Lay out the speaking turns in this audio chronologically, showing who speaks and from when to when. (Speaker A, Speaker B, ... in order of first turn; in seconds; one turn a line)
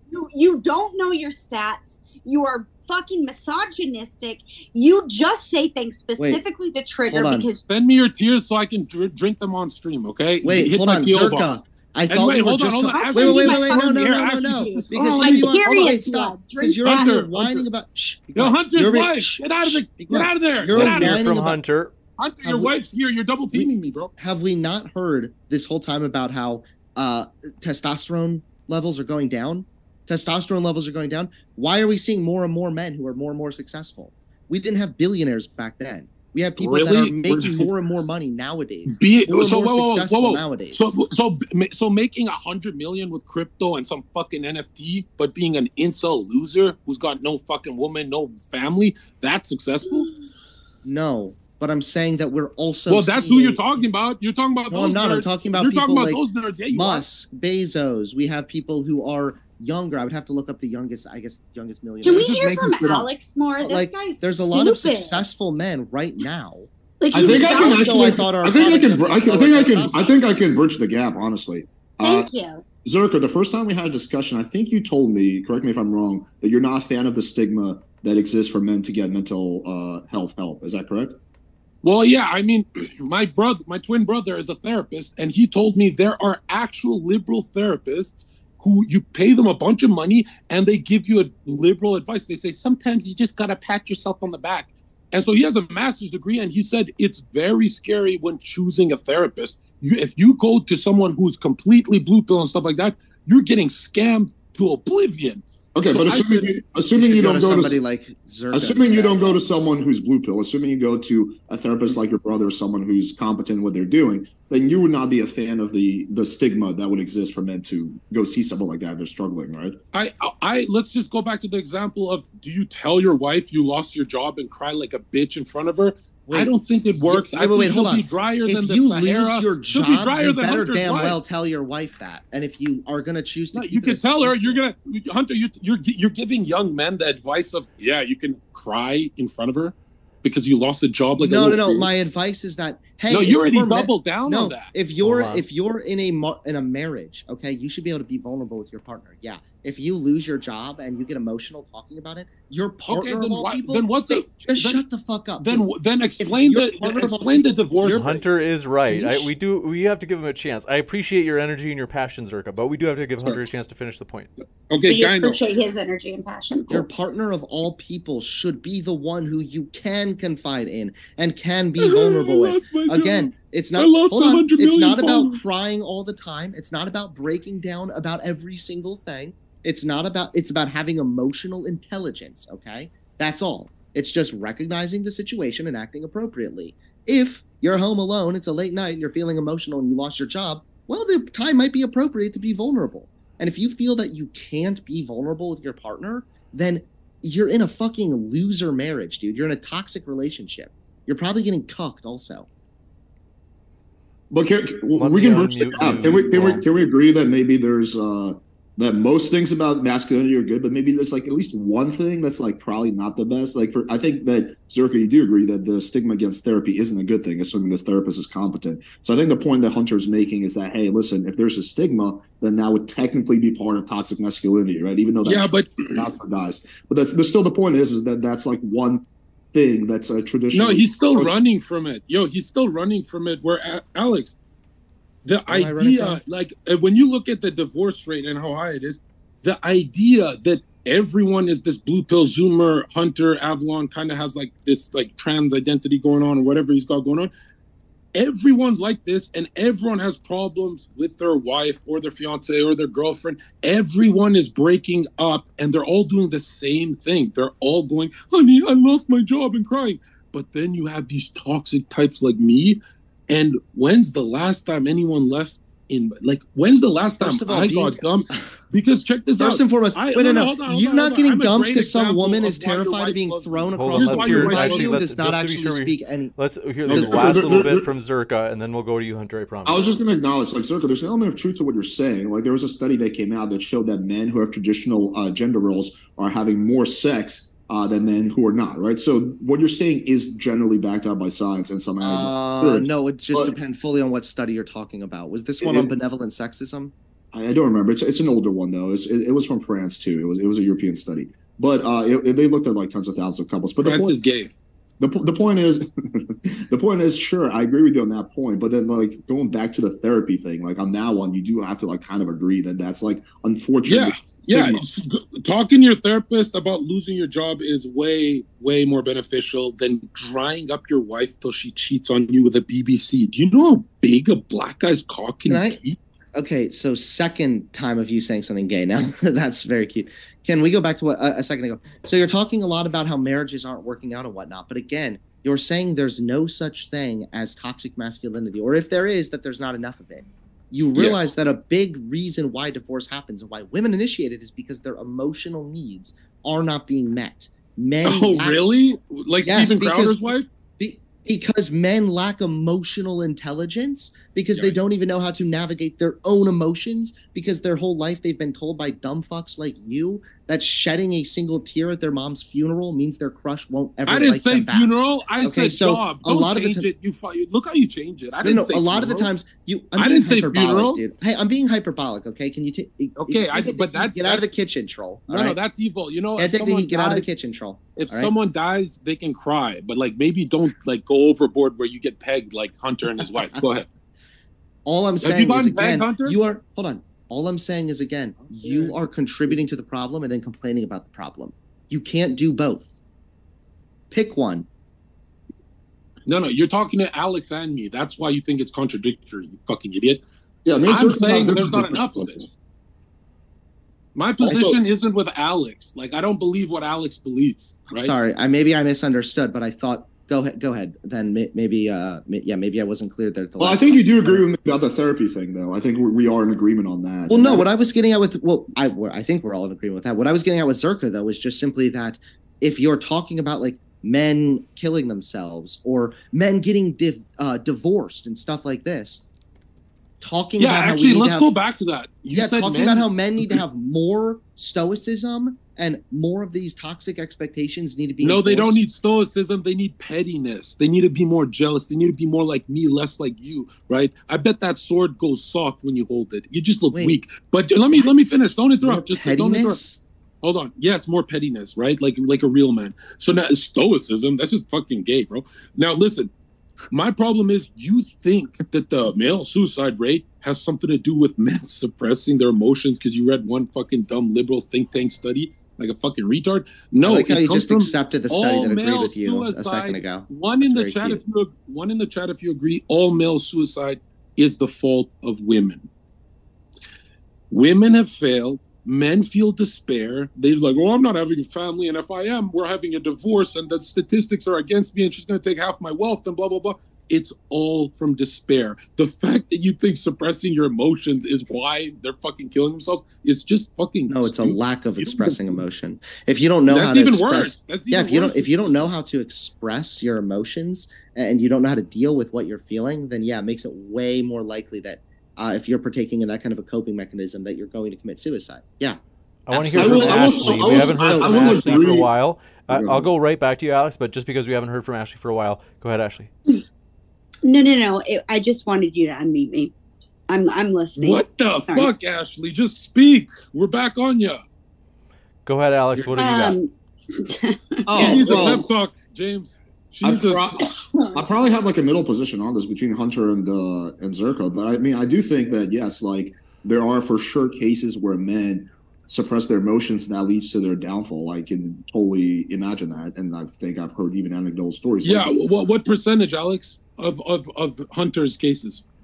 Speaker A: 0.1-7.6
Speaker B: 7.1-7.5
Speaker C: 7.7-16.0
Speaker B: 10.4-21.6
Speaker A: 12.9-17.2
Speaker C: 16.8-17.7
Speaker C: 18.4-21.2
Speaker D: 20.7-21.9
Speaker C: 22.2-24.1
Speaker B: 22.4-22.7
Speaker B: 23.5-40.9
Speaker C: 36.6-37.7
Speaker C: 38.9-50.1
Speaker B: 50.8-53.6
Speaker C: 52.9-57.0
Speaker B: 54.7-62.4
Speaker A: 62.0-65.2
Speaker E: 62.3-63.0
Speaker B: 63.6-70.0
Speaker A: 67.0-68.2
Speaker E: 67.1-72.3
Speaker A: 72.0-72.6
Speaker E: 72.8-81.2
Speaker C: 81.8-106.6
Speaker E: 105.8-107.8
Speaker B: 107.0-109.4
Speaker E: 108.5-119.8
Speaker C: 119.9-131.2
Speaker B: 126.3-126.5
Speaker B: 127.1-134.6
Speaker C: 133.5-141.9
Speaker B: 141.2-155.7
Speaker C: 143.1-144.7
Speaker D: 145.0-145.4
Speaker C: 152.9-154.8
Speaker C: 155.4-158.2
Speaker B: 156.2-158.1
Speaker D: 157.8-164.3
Speaker B: 158.9-159.3
Speaker C: 164.7-165.4
Speaker A: 164.8-166.8
Speaker B: 166.7-202.5
Speaker C: 171.8-175.4
Speaker E: 204.3-231.3
Speaker D: 205.0-206.6
Speaker C: 225.2-226.1
Speaker C: 230.5-234.4
Speaker C: 235.2-247.3
Speaker B: 235.5-236.2
Speaker C: 248.2-275.0
Speaker B: 267.2-268.4
Speaker B: 269.4-276.4
Speaker D: 273.8-279.9
Speaker C: 276.9-277.4
Speaker E: 276.9-277.9
Speaker B: 277.0-277.3
Speaker E: 279.6-293.6
Speaker B: 292.0-296.9
Speaker E: 295.6-295.9
Speaker E: 297.3-304.2
Speaker C: 303.8-304.5
Speaker E: 305.0-314.8
Speaker C: 313.9-326.0
Speaker B: 325.5-325.8
Speaker B: 326.3-348.6
Speaker C: 341.0-341.3
Speaker C: 348.0-350.5
Speaker B: 349.4-350.2
Speaker B: 350.8-364.9
Speaker C: 364.1-369.3
Speaker B: 365.4-366.9
Speaker B: 368.4-375.6
Speaker C: 370.0-371.0
Speaker C: 373.2-374.5
Speaker C: 375.3-377.3
Speaker B: 376.4-378.3
Speaker C: 378.0-383.9
Speaker B: 384.9-392.9
Speaker C: 385.2-386.4
Speaker B: 394.1-394.7
Speaker C: 396.3-400.2
Speaker E: 400.6-402.3
Speaker C: 400.9-402.4
Speaker C: 404.1-408.1
Speaker B: 404.4-404.8
Speaker B: 407.9-414.4
Speaker E: 413.6-417.7
Speaker B: 417.3-429.2
Speaker B: 430.2-431.5
Speaker C: 430.6-433.6
Speaker B: 432.3-438.8
Speaker C: 438.2-449.8
Speaker B: 446.9-447.2
Speaker B: 447.9-450.0
Speaker C: 450.4-456.3
Speaker C: 456.9-475.9
Speaker B: 467.0-471.2
Speaker C: 477.5-495.5
Speaker B: 494.1-509.0
Speaker C: 496.7-498.9
Speaker D: 509.5-516.3
Speaker E: 509.5-512.1
Speaker B: 509.6-510.9
Speaker C: 510.1-511.8
Speaker E: 512.7-513.1
Speaker A: 517.4-519.7
Speaker A: 520.3-521.9
Speaker C: 521.0-524.4
Speaker D: 525.5-526.6
Speaker A: 526.2-528.6
Speaker E: 527.9-528.7
Speaker C: 528.0-530.8
Speaker E: 530.0-545.4
Speaker A: 530.9-531.2
Speaker C: 545.0-548.9